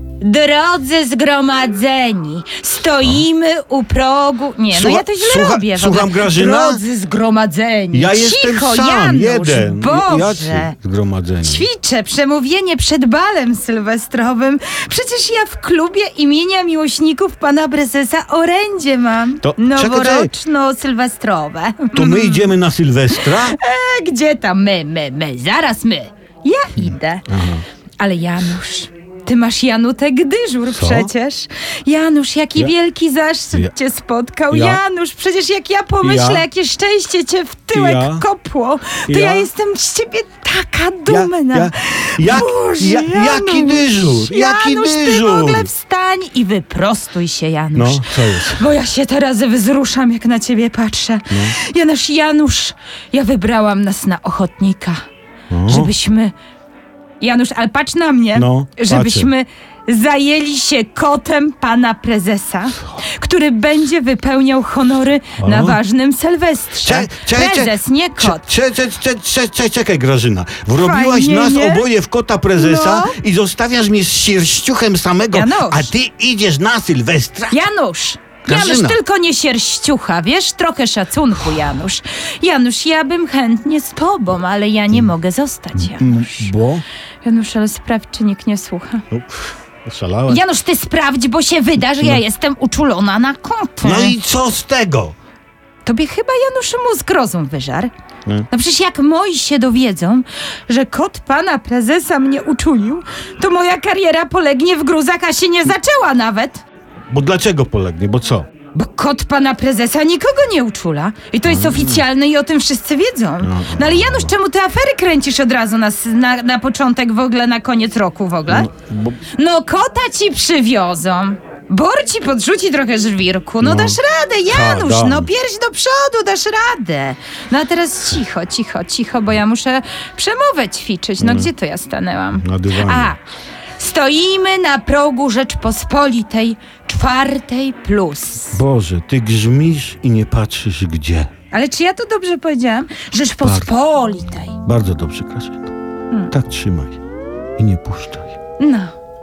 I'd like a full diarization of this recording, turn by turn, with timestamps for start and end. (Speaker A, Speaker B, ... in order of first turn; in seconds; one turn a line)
Speaker A: 0.2-10.7
Speaker B: 4.7-6.8
Speaker B: 7.9-11.7
Speaker A: 11.4-22.5
Speaker B: 19.4-20.3
Speaker B: 21.9-23.6
Speaker A: 23.1-27.3
Speaker B: 27.3-27.6
Speaker A: 28.0-55.0
Speaker B: 30.7-31.1
Speaker B: 34.5-34.8
Speaker B: 36.0-36.5
Speaker B: 37.7-38.2
Speaker B: 39.1-39.5
Speaker B: 41.0-45.7
Speaker B: 47.7-48.7
Speaker B: 51.3-51.5
Speaker B: 55.5-55.9
Speaker A: 55.6-56.3
Speaker A: 57.2-68.5
Speaker B: 58.3-59.3
Speaker B: 65.4-65.8
Speaker B: 66.8-77.6
Speaker A: 70.7-71.9
Speaker A: 72.5-73.1
Speaker A: 75.3-75.9
Speaker A: 77.5-86.5
Speaker B: 78.4-79.0
Speaker B: 85.8-86.8
Speaker A: 87.2-89.0
Speaker B: 89.1-90.4
Speaker A: 90.3-94.2
Speaker B: 93.8-95.1
Speaker A: 95.8-97.9
Speaker A: 98.5-106.6
Speaker B: 107.1-108.5
Speaker A: 108.7-118.7
Speaker B: 111.4-112.0
Speaker B: 113.4-114.3
Speaker B: 118.5-119.2
Speaker A: 119.3-133.2
Speaker B: 123.6-125.3
Speaker B: 131.2-131.5
Speaker B: 132.4-133.1
Speaker A: 133.8-138.6
Speaker B: 138.5-141.3
Speaker A: 141.5-144.6
Speaker B: 143.4-143.7
Speaker B: 144.6-145.7
Speaker B: 146.3-147.0
Speaker B: 147.6-148.3
Speaker A: 148.6-148.9